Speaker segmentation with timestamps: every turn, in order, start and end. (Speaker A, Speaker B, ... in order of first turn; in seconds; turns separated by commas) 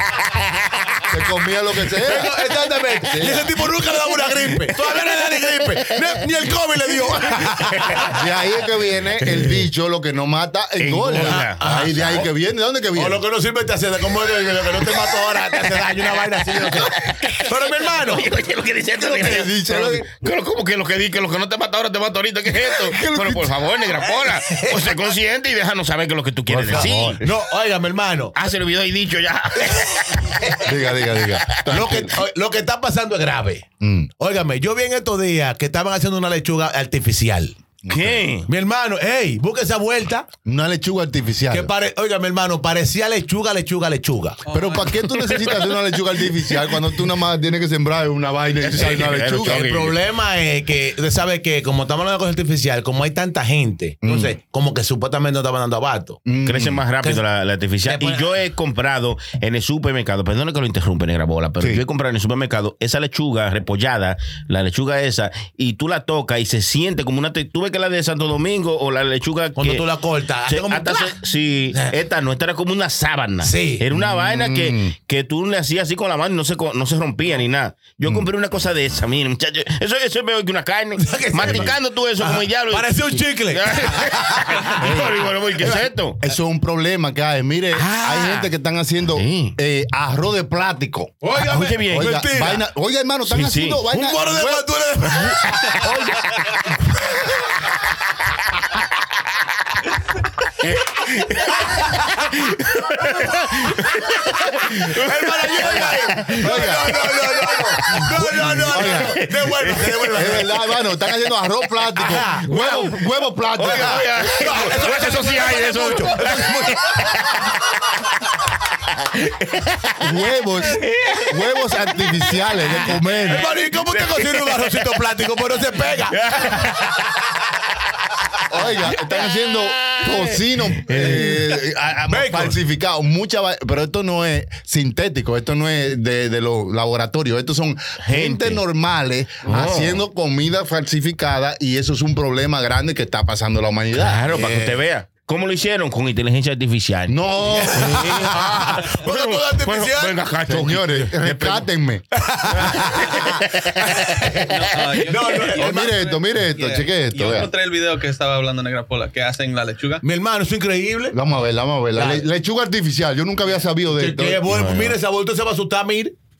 Speaker A: 1.1-2.3, Speaker B: 2.0-8.1, Speaker A: 3.1-3.5, Speaker C: 4.7-6.0, Speaker C: 7.3-8.1, Speaker A: 8.0-13.2, Speaker C: 10.8-11.8, Speaker B: 11.1-12.3, Speaker B: 12.9-18.2, Speaker C: 16.9-27.3, Speaker A: 19.0-20.1, Speaker A: 22.8-23.5, Speaker B: 24.0-24.9, Speaker A: 26.5-27.2, Speaker B: 26.7-28.3, Speaker C: 28.3-30.7, Speaker A: 30.6-32.1, Speaker C: 31.2-31.7, Speaker B: 31.7-33.6, Speaker A: 33.8-34.1, Speaker B: 34.2-37.5, Speaker A: 37.8-38.2, Speaker C: 37.9-38.5, Speaker B: 38.5-40.3, Speaker A: 40.5-41.7, Speaker B: 41.5-44.4, Speaker D: 44.5-44.9, Speaker A: 44.5-49.7, Speaker C: 45.1-46.2, Speaker C: 48.6-50.0, Speaker B: 48.9-56.2, Speaker A: 54.0-54.3, Speaker A: 56.2-56.8, Speaker C: 56.4-69.8, Speaker B: 57.8-58.4, Speaker B: 69.5-71.2, Speaker C: 70.5-86.2, Speaker B: 73.4-73.8, Speaker A: 73.9-74.9, Speaker B: 81.0-84.9, Speaker A: 81.4-81.7, Speaker A: 84.8-85.7, Speaker B: 85.6-85.9, Speaker A: 86.2-91.1, Speaker C: 87.7-88.5, Speaker C: 89.1-89.5, Speaker B: 91.2-92.7, Speaker C: 91.3-92.2, Speaker A: 91.9-94.7, Speaker C: 93.2-93.8, Speaker B: 93.9-95.9, Speaker C: 95.1-95.5, Speaker A: 95.6-96.5, Speaker C: 100.6-110.4, Speaker B: 104.5-110.7, Speaker A: 105.7-106.9, Speaker A: 108.2-109.2, Speaker A: 110.1-114.0, Speaker B: 112.0-112.5, Speaker C: 112.3-113.0, Speaker C: 113.5-118.2, Speaker B: 113.6-117.3, Speaker C: 118.8-120.1, Speaker A: 120.0-123.5, Speaker C: 120.6-125.0, Speaker B: 123.3-126.2, Speaker C: 126.1-127.1, Speaker A: 128.5-144.2, Speaker C: 128.9-131.2, Speaker B: 130.9-131.5, Speaker B: 132.1-132.6, Speaker C: 138.0-138.6, Speaker C: 139.4-140.0, Speaker C: 143.9-151.7, Speaker B: 144.3-144.8, Speaker A: 147.1-148.3, Speaker B: 147.6-150.2, Speaker A: 150.5-152.0, Speaker B: 152.1-155.9, Speaker C: 152.6-155.0, Speaker D: 154.5-160.0, Speaker A: 155.6-157.5, Speaker B: 160.0-161.1, Speaker A: 161.1-164.4, Speaker B: 161.9-162.2, Speaker B: 163.9-166.1, Speaker C: 164.5-165.0